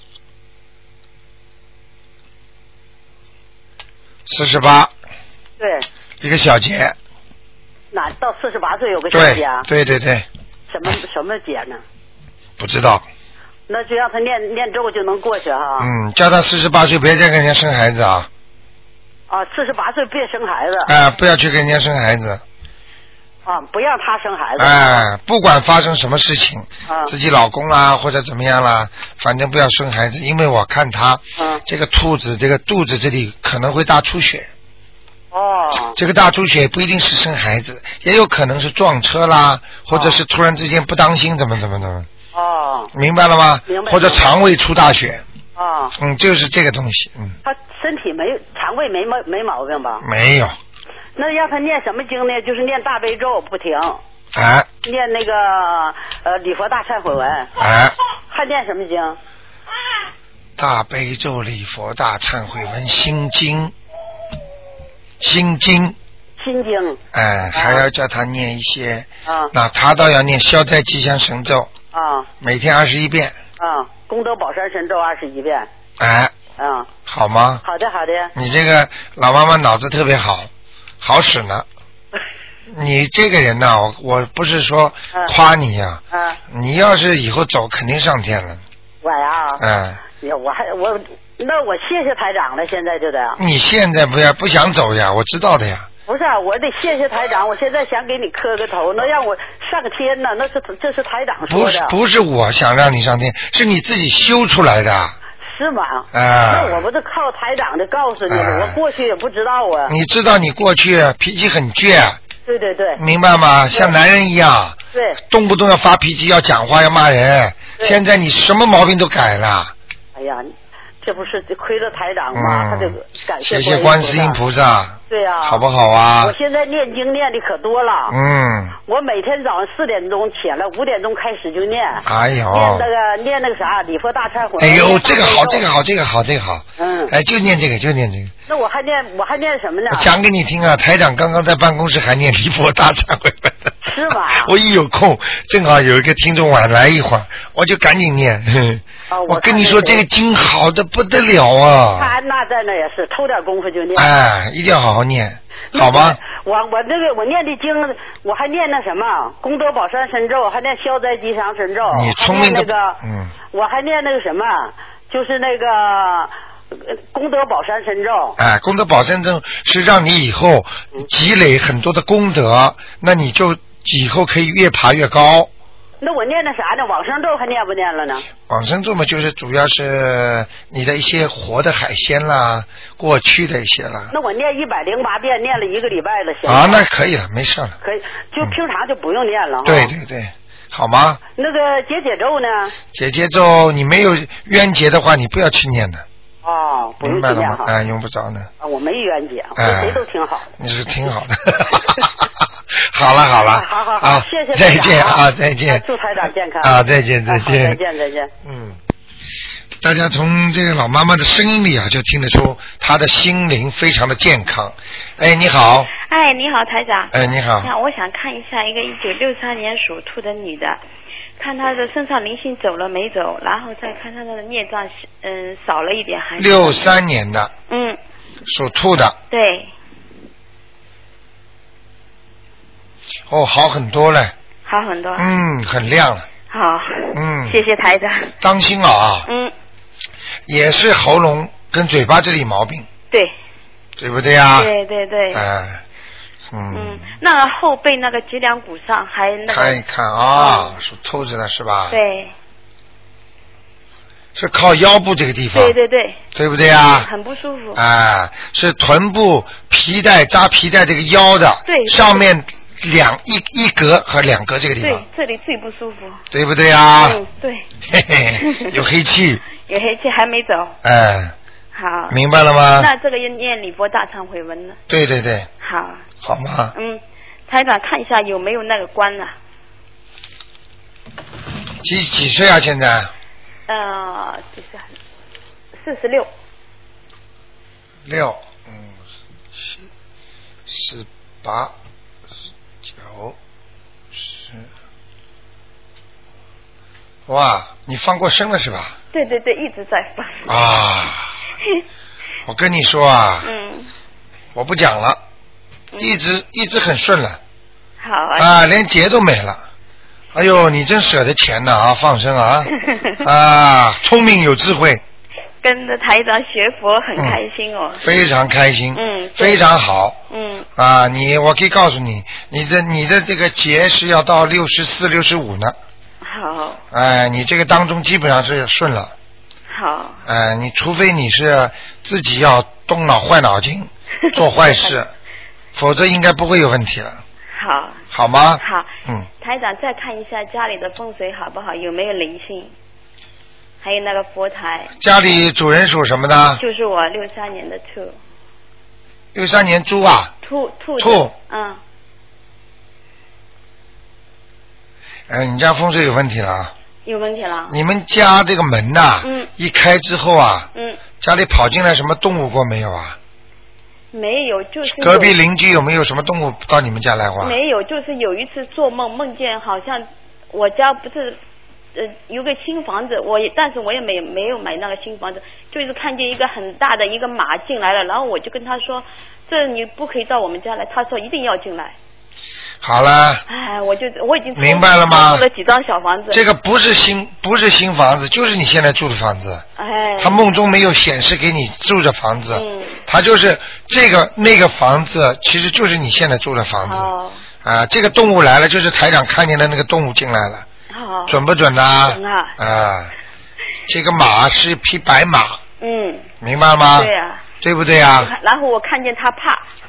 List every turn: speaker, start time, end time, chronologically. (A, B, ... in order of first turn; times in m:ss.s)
0:04.3-0:04.9 A
0:05.6-0:05.9 B
0:06.2-0:07.0 A
0:07.9-0:09.7 B
0:09.1-0:10.3 A
0:10.7-0:11.8 B
0:12.6-0:13.0 A
0:13.7-0:15.9 B
0:15.8-0:18.3 A
0:19.3-0:20.9 B
0:20.8-0:22.4 A
0:23.4-0:25.0 B
0:24.6-0:34.5 A
0:26.9-0:27.1 B
0:31.4-0:31.6 B
0:35.3-0:36.0 B
0:35.9-0:42.1 A
0:39.9-0:40.2 B
0:42.3-0:42.9 B
0:42.9-0:45.2 A
0:43.7-0:44.4 B
0:45.6-0:45.9 B
0:46.0-0:47.4 A
0:47.4-0:50.0 B
0:50.0-0:50.6 A
0:51.2-0:54.0 B
0:54.3-0:54.7 A
0:54.8-0:57.5 B
0:57.6-0:58.0 A
0:58.3-0:59.2 B
1:00.6-1:03.7 A
1:05.2-1:06.0 A
1:06.4-1:07.0 B
1:07.1-1:11.7 A
1:07.5-1:07.8 B
1:09.3-1:09.5 B
1:11.9-1:12.3 B
1:12.4-1:13.4 A
1:13.6-1:15.7 B
1:16.0-1:16.3 A
1:16.6-1:16.9 B
1:17.0-1:17.6 A
1:17.6-1:18.3 B
1:18.3-1:20.5 A
1:21.0-1:21.7 A
1:22.7-1:28.6 A
1:26.1-1:26.4 B
1:29.0-1:33.4 B
1:29.6-1:30.0 A
1:33.4-1:35.9 A
1:36.1-1:41.9 B
1:41.5-1:45.2 A
1:45.4-1:49.9 B
1:46.1-1:46.9 A
1:48.3-1:48.8 A
1:49.9-1:52.2 A
1:52.4-1:53.0 B
1:53.0-1:59.7 A
1:54.9-1:55.2 B
2:00.1-2:00.5 B
2:01.0-2:04.4 B
2:02.3-2:06.3 A
2:05.1-2:05.6 B
2:06.2-2:08.1 B
2:08.1-2:08.7 A
2:08.8-2:15.6 B
2:12.0-2:12.9 A
2:14.6-2:18.3 A
2:16.8-2:17.1 B
2:18.5-2:20.1 B
2:19.9-2:32.2 A
2:23.8-2:24.5 B
2:29.1-2:30.0 B
2:31.9-2:34.1 B
2:34.0-2:36.2 A
2:35.7-2:43.0 B
2:41.9-2:43.3 A
2:43.5-2:48.4 B
2:48.4-2:55.5 A
2:56.0-2:58.2 B
2:58.5-3:04.1 A
3:04.1-3:06.8 B
3:06.4-3:07.8 A
3:07.8-3:09.9 B
3:09.6-3:11.2 A
3:11.4-3:12.7 B
3:12.9-3:16.0 A
3:16.4-3:17.7 B
3:17.0-3:18.5 A
3:18.6-3:20.5 B
3:19.6-3:20.0 A
3:20.6-3:22.1 A
3:22.8-3:25.8 A
3:23.5-3:26.7 B
3:26.6-3:27.8 A
3:27.3-3:28.3 B
3:28.4-3:28.8 A
3:29.8-3:35.9 A
3:35.9-3:40.8 C
3:37.1-3:37.7 A
3:41.4-3:47.0 C
3:46.4-3:47.5 A
3:47.7-3:48.0 C
3:48.5-3:49.2 A
3:49.3-3:49.7 C
3:53.3-3:54.3 A
3:54.6-3:55.3 C
3:55.2-3:56.3 A
3:56.5-3:58.3 C
3:57.1-3:57.6 A
3:58.4-3:59.3 A
3:59.2-3:59.5 C
4:00.5-4:02.9 A
4:04.0-4:04.7 A
4:04.5-4:05.4 C
4:05.3-4:05.8 A
4:06.5-4:07.1 A
4:06.7-4:09.8 C
4:09.5-4:12.0 A
4:10.3-4:10.8 C
4:11.9-4:12.3 C
4:14.3-4:15.8 A
4:15.5-4:16.2 C
4:16.3-4:17.1 A
4:16.8-4:17.8 C
4:17.7-4:25.0 A
4:21.7-4:22.2 C
4:24.8-4:26.2 C
4:26.3-4:27.2 A
4:27.0-4:27.7 C
4:27.9-4:29.4 A
4:28.4-4:28.8 C
4:29.6-4:30.8 C
4:30.8-4:31.3 A
4:31.7-4:32.2 C
4:32.1-4:32.9 A
4:32.8-4:34.8 C
4:34.9-4:35.5 A
4:35.6-4:36.0 C
4:36.2-4:36.7 A
4:36.7-4:39.3 C
4:41.8-4:43.1 A
4:43.7-4:44.8 C
4:45.7-4:46.3 C
4:48.0-4:49.0 A
4:50.7-4:51.7 A
4:52.8-4:53.4 A
4:54.1-4:54.7 A
4:57.3-4:59.0 A
4:59.1-5:00.5 C
5:00.4-5:01.3 A
5:02.4-5:03.5 A
5:03.4-5:03.9 C
5:04.5-5:05.2 A
5:06.0-5:07.4 A
5:08.0-5:08.5 C
5:08.4-5:09.6 A
5:10.3-5:15.0 A
5:12.8-5:13.2 C
5:15.6-5:18.0 C
5:17.2-5:17.4 A
5:18.0-5:20.2 A
5:18.9-5:19.6 C
5:20.3-5:20.7 C
5:20.8-5:25.7 A
5:26.2-5:26.8 C
5:26.9-5:29.1 A
5:29.7-5:30.2 C
5:30.2-5:35.1 A
5:34.2-5:35.0 C
5:35.7-5:37.2 A
5:37.5-5:38.0 C
5:38.1-5:39.3 A
5:38.6-5:42.7 C
5:43.8-5:44.9 C
5:45.0-5:46.6 A
5:46.6-5:48.2 C
5:49.3-5:50.3 A
5:50.4-5:51.8 C
5:51.0-5:51.3 A
5:55.3-5:56.7 A
5:57.0-5:57.7 C
5:57.7-6:00.7 A
5:59.2-5:59.5 C
6:00.7-6:01.0 C
6:01.2-6:03.2 A
6:04.1-6:05.4 C
6:04.8-6:07.6 A
6:07.4-6:11.4 C
6:11.9-6:22.0 C
6:22.8-6:23.4 A
6:23.5-6:26.4 C
6:24.6-6:25.4 A
6:26.3-6:29.6 A
6:29.8-6:30.4 C
6:30.2-6:40.6 A
6:32.5-6:33.0 C
6:36.8-6:37.4 C
6:40.9-6:41.4 C
6:41.3-6:43.1 A
6:42.1-6:42.5 C
6:43.9-6:45.6 A
6:45.8-6:46.3 C
6:46.4-6:48.3 A
6:46.9-6:47.5 C
6:48.2-6:49.6 C